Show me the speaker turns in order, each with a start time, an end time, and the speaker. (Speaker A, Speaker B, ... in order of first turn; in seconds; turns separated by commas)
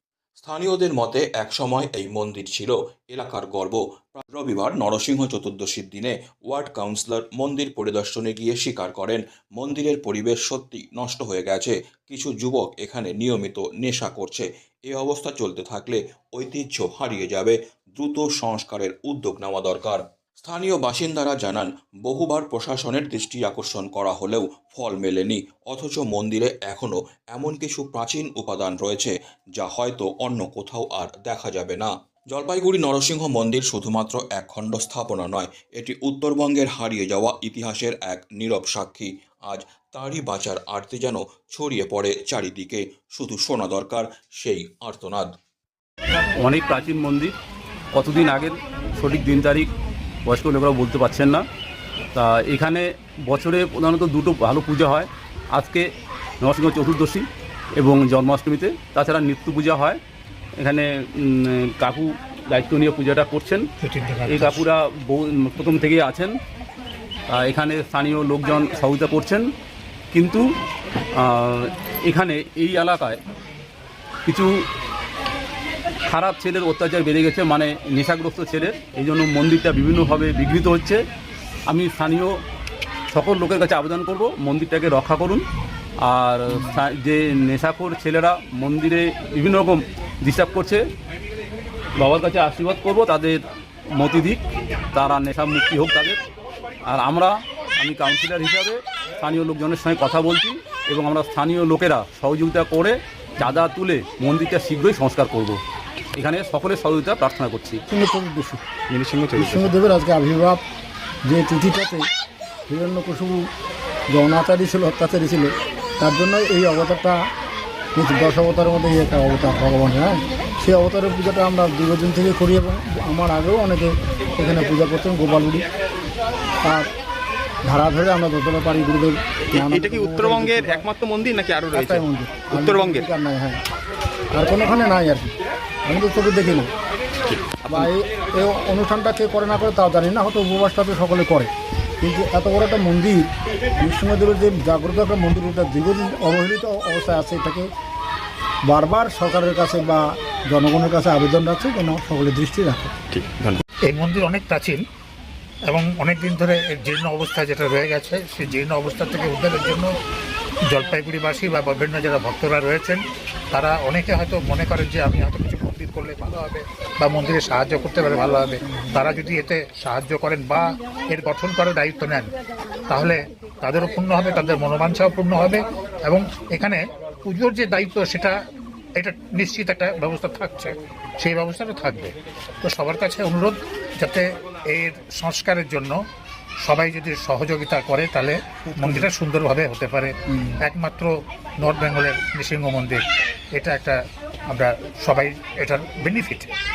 Speaker A: 0.4-45.3, Speaker B: 46.4-47.4, Speaker B: 47.9-49.7, Speaker B: 50.2-51.5, Speaker B: 52.1-55.9, Speaker B: 56.4-60.0, Speaker B: 60.6-63.6, Speaker C: 63.8-64.6, Speaker B: 64.3-66.3, Speaker B: 67.3-69.5, Speaker B: 70.1-70.5, Speaker B: 71.1-73.2, Speaker B: 74.3-74.6, Speaker B: 76.1-81.0, Speaker B: 81.7-82.4, Speaker B: 83.1-85.4, Speaker B: 86.0-90.8, Speaker B: 92.0-93.4, Speaker B: 93.9-94.4, Speaker B: 94.9-96.2, Speaker B: 96.8-105.6, Speaker B: 106.2-107.8, Speaker D: 107.9-108.6, Speaker E: 108.9-109.8, Speaker D: 109.3-110.6, Speaker D: 111.3-112.0, Speaker D: 112.7-113.4, Speaker D: 114.1-117.2, Speaker D: 118.0-125.6, Speaker D: 126.6-126.9, Speaker D: 127.7-130.9, Speaker E: 129.5-133.1, Speaker D: 131.7-133.6, Speaker D: 134.3-135.3, Speaker D: 135.9-136.7, Speaker E: 137.3-137.9, Speaker D: 137.7-141.5, Speaker D: 142.0-143.3, Speaker D: 143.8-147.7, Speaker D: 148.7-152.9, Speaker E: 153.2-153.6, Speaker C: 153.9-154.8, Speaker C: 155.7-159.9, Speaker C: 160.7-163.0, Speaker C: 163.5-172.3, Speaker C: 172.9-178.4, Speaker C: 179.0-186.0, Speaker C: 186.6-193.0, Speaker C: 193.5-194.0, Speaker C: 194.5-196.5